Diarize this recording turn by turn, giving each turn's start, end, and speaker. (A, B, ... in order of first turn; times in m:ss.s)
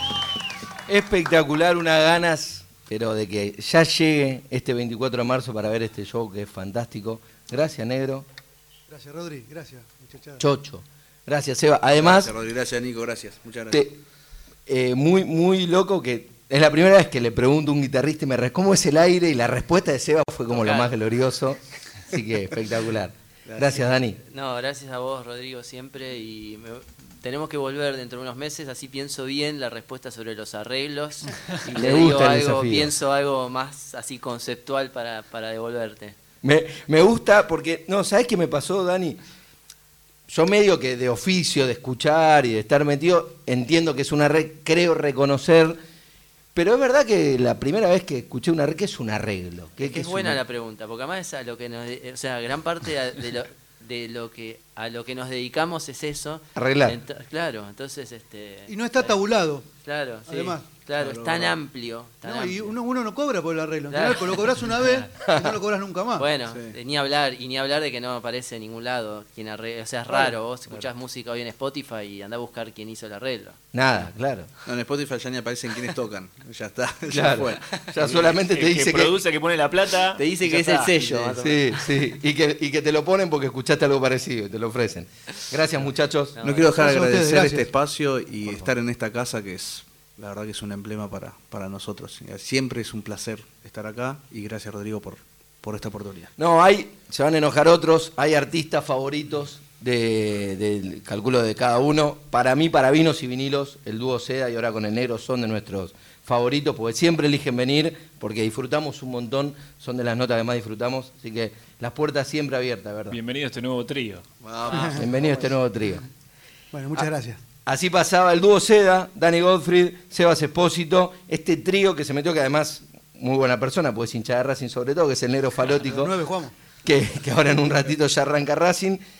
0:00.9-0:08.3 A
0:08.9-0:10.4 B
0:10.4-0:12.3 A
0:11.9-0:13.8 C
0:13.7-0:14.0 A
0:14.7-0:24.2 A
0:20.5-0:20.9 D
0:23.4-0:23.8 C
0:24.2-0:36.2 D
0:31.6-0:32.9 A
0:36.4-0:39.2 A
0:40.3-0:45.8 A
0:46.5-0:50.4 A
0:49.8-0:59.2 D
0:56.6-0:57.0 A
0:58.7-0:59.7 B
0:59.8-1:02.7 D
1:00.3-1:00.6 B
1:01.0-1:01.5 C
1:02.2-1:06.3 B
1:03.9-1:04.5 D
1:05.2-1:05.5 A
1:06.2-1:13.6 D
1:06.5-1:06.7 C
1:13.7-1:14.5 A
1:14.6-1:18.2 C
1:17.1-1:19.2 A
1:18.0-1:20.9 E
1:20.1-1:21.6 D
1:20.4-1:21.6 C
1:21.4-1:26.6 A
1:26.4-1:26.8 D
1:26.4-1:36.3 C
1:26.7-1:27.7 B
1:36.4-1:53.2 A
1:53.1-1:54.2 E
1:54.4-1:55.1 C
1:54.7-1:55.5 B
1:54.7-1:56.1 A
1:56.7-1:57.4 B
1:57.6-2:06.1 A
2:05.8-2:06.5 B
2:06.8-2:09.0 A